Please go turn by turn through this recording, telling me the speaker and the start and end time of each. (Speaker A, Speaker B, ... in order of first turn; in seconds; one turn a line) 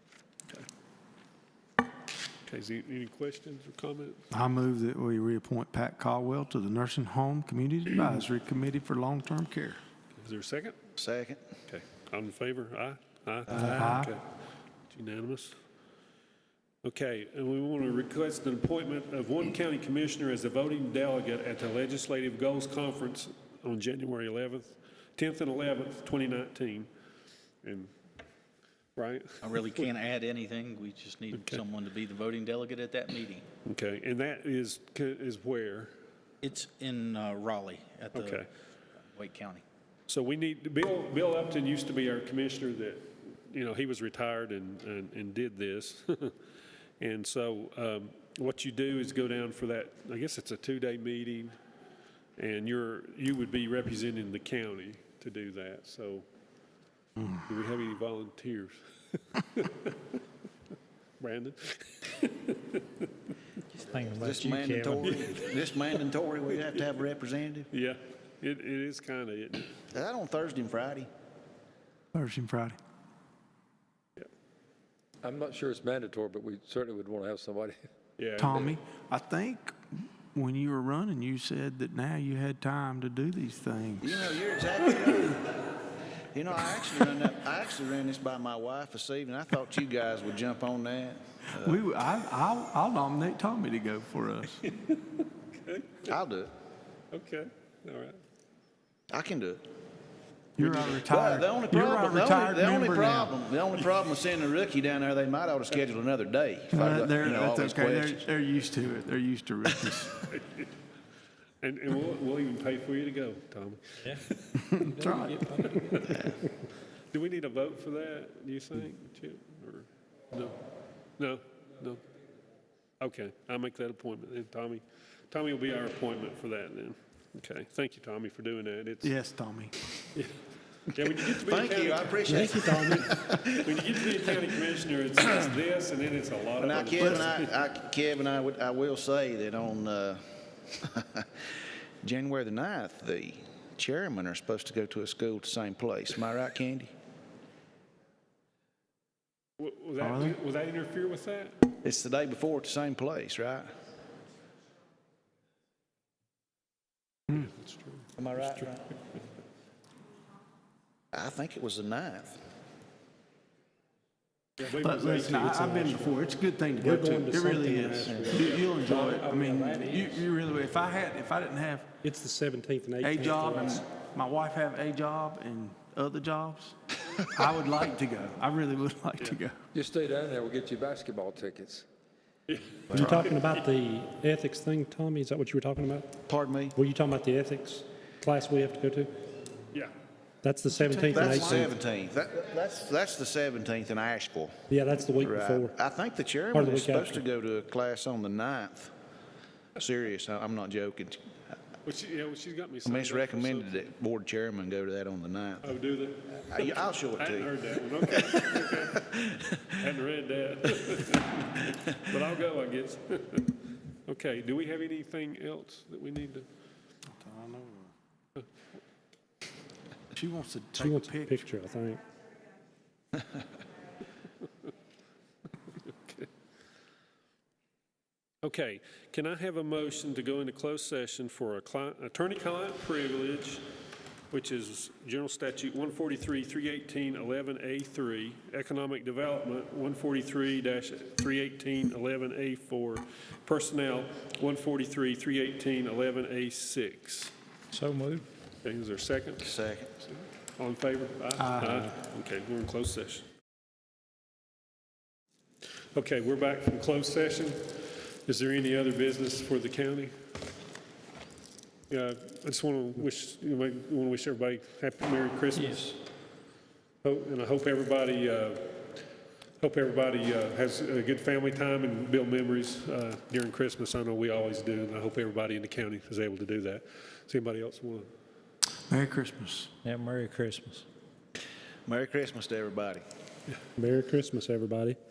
Speaker A: 2.5-4.2
Speaker B: 4.3-9.8
Speaker A: 10.1-10.8
Speaker C: 11.0-11.4
Speaker A: 11.7-14.3
Speaker B: 13.5-14.1
Speaker A: 14.9-15.6
Speaker A: 16.8-26.9
Speaker A: 27.6-27.9
Speaker A: 28.9-29.9
Speaker D: 29.4-33.5
Speaker A: 31.3-31.6
Speaker A: 33.6-35.9
Speaker D: 36.4-38.4
Speaker A: 38.1-38.5
Speaker D: 39.0-39.6
Speaker A: 40.1-46.3
Speaker A: 47.0-51.5
Speaker A: 52.4-56.2
Speaker B: 57.2-57.4
Speaker A: 57.5-59.9
Speaker A: 61.2-63.0
Speaker E: 63.8-65.3
Speaker C: 64.2-67.7
Speaker A: 65.0-65.3
Speaker A: 67.7-69.7
Speaker C: 69.9-71.1
Speaker B: 72.1-72.8
Speaker F: 75.2-77.9
Speaker A: 78.2-78.8
Speaker B: 78.4-84.4
Speaker C: 84.0-85.5
Speaker C: 86.3-91.8
Speaker B: 91.5-94.6
Speaker A: 94.6-96.1
Speaker C: 96.1-96.5
Speaker A: 97.1-98.2
Speaker C: 99.1-99.7
Speaker B: 100.6-103.3
Speaker C: 100.6-108.2
Speaker B: 106.7-110.3
Speaker A: 110.3-110.7
Speaker A: 111.6-114.0
Speaker E: 114.0-116.3
Speaker B: 114.5-115.5
Speaker A: 115.6-116.2
Speaker C: 116.1-116.3
Speaker A: 117.1-120.6
Speaker A: 121.2-122.0
Speaker A: 123.0-129.1
Speaker B: 129.0-129.7
Speaker A: 130.9-137.5
Speaker C: 131.3-134.0
Speaker E: 132.3-133.0
Speaker C: 136.6-141.3
Speaker B: 137.0-137.3
Speaker C: 142.0-146.9
Speaker A: 149.6-151.6
Speaker B: 150.0-150.4
Speaker C: 151.8-153.7
Speaker A: 157.3-158.7
Speaker D: 158.2-158.7
Speaker C: 161.1-162.4
Speaker A: 164.6-166.1
Speaker B: 164.8-171.9
Speaker E: 166.8-170.2
Speaker E: 172.0-173.8
Speaker B: 173.0-179.6
Speaker F: 179.7-181.8
Speaker A: 182.5-183.6
Speaker C: 182.9-183.3
Speaker E: 182.9-186.1
Speaker C: 186.2-186.8
Speaker E: 186.8-189.1
Speaker E: 190.4-191.7
Speaker B: 190.7-191.7
Speaker C: 191.1-194.6
Speaker E: 194.7-195.7
Speaker C: 195.1-198.9
Speaker E: 196.5-197.2
Speaker C: 199.8-201.2
Speaker A: 201.8-203.9
Speaker C: 202.8-205.7
Speaker A: 205.6-209.1
Speaker C: 206.5-209.7
Speaker A: 209.7-216.4
Speaker B: 217.1-217.9
Speaker B: 220.1-221.4
Speaker E: 220.8-222.0
Speaker A: 225.8-226.3
Speaker A: 228.4-233.7
Speaker A: 234.3-247.3
Speaker E: 247.7-248.3
Speaker A: 248.6-253.3
Speaker C: 249.4-249.9
Speaker B: 251.4-251.8
Speaker A: 255.9-260.1
Speaker A: 261.9-266.0
Speaker E: 265.5-265.9
Speaker A: 267.0-268.9
Speaker A: 269.6-278.1
Speaker B: 278.9-279.7
Speaker E: 279.8-280.9
Speaker C: 281.9-283.0
Speaker E: 283.8-285.0